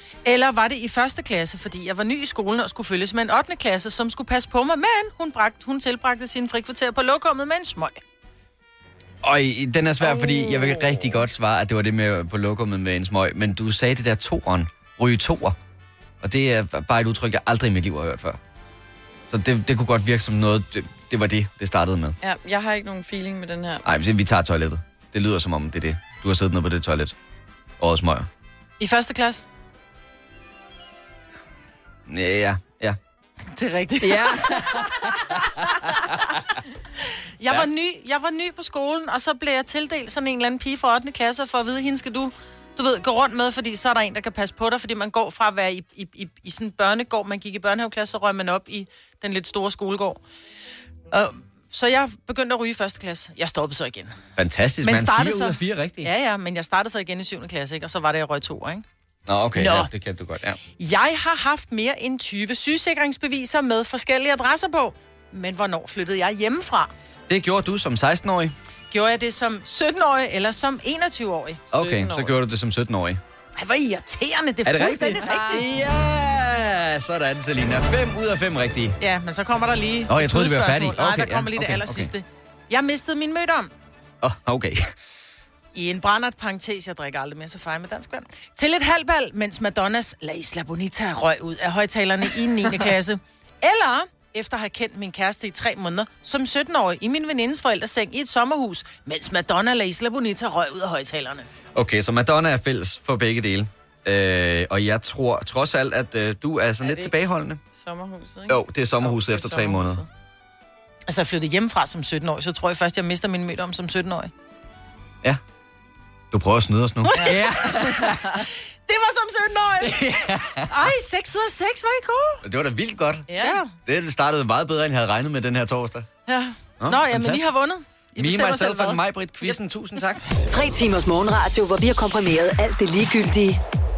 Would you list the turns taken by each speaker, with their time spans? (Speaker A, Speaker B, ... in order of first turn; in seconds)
Speaker A: 0.2-8.0, 28.8-29.4, 33.5-36.4, 37.4-50.2, 51.1-54.2, 54.8-58.8, 59.5-59.9, 60.8-66.9, 68.9-71.6, 73.6-75.6, 79.0-83.7, 85.7-101.5, 111.1-114.3, 117.0-122.4, 123.4-123.7, 126.3-129.5
Speaker B: 9.2-15.6, 16.2-18.4, 19.3-22.1, 23.8-27.1, 27.8-28.3, 32.1-33.0, 34.0-36.4, 54.4-56.1, 59.3-60.6, 67.3-68.5, 71.7-73.2, 74.6-79.0, 80.1-82.1, 84.2-84.9, 101.7-107.6, 108.5-110.0, 116.3-118.3, 119.8-120.9, 122.4-123.3, 123.8-126.1, 126.8-127.5, 128.2-130.2
Speaker C: 10.0-11.1, 22.2-23.9, 71.7-72.4, 75.2-75.7, 106.8-107.1, 107.7-110.1, 117.1-117.5, 123.3-123.6
Speaker D: 130.5-133.6